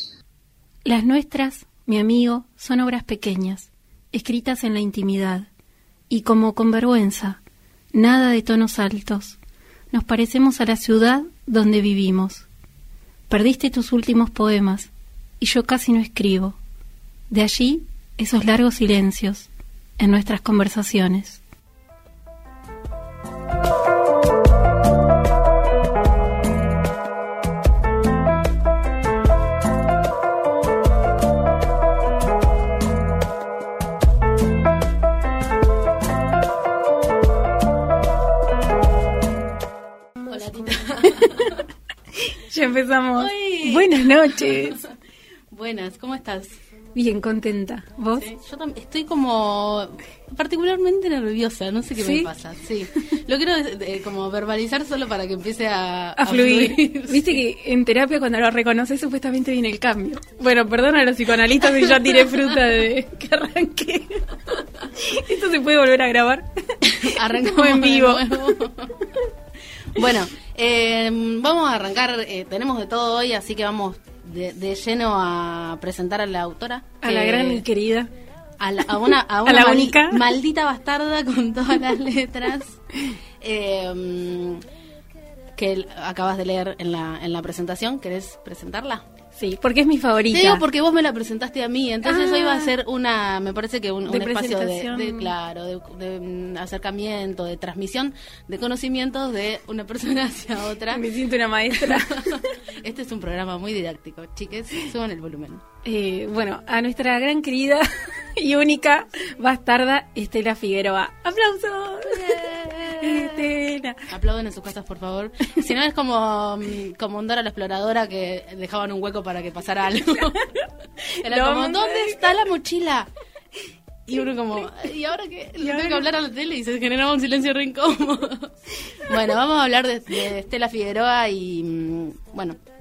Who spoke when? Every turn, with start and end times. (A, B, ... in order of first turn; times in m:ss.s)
0:00.8-0:05.5 A
0:06.1-0:07.4 A
0:07.9-0:09.4 A
0:09.9-0:12.5 A
0:13.3-0:16.6 A
0:17.3-0:21.4 A
0:40.3-0:41.6 B
0:41.0-0:41.6 A
0:42.2-0:44.8 A
0:43.2-0:44.8 B
0:45.5-0:46.6 B
0:47.0-0:48.3 A
0:48.2-0:57.4 B
0:52.0-0:52.3 A
0:56.2-1:08.7 A
1:06.9-1:09.0 B
1:09.9-1:17.6 B
1:17.0-1:18.1 A
1:18.6-1:22.8 B
1:19.4-1:20.3 A
1:23.4-1:24.6 B
1:25.6-1:29.0 B
1:29.4-1:30.6 A
1:30.3-1:41.1 B
1:32.0-1:32.8 A
1:34.1-1:35.3 A
1:40.9-1:42.6 A
1:41.7-1:45.6 B
1:45.8-1:54.1 A
1:52.2-1:53.5 B
1:54.1-2:00.5 B
2:01.0-2:02.4 A
2:01.2-2:03.1 B
2:04.1-2:08.5 B
2:05.6-2:06.1 A
2:09.0-2:12.6 B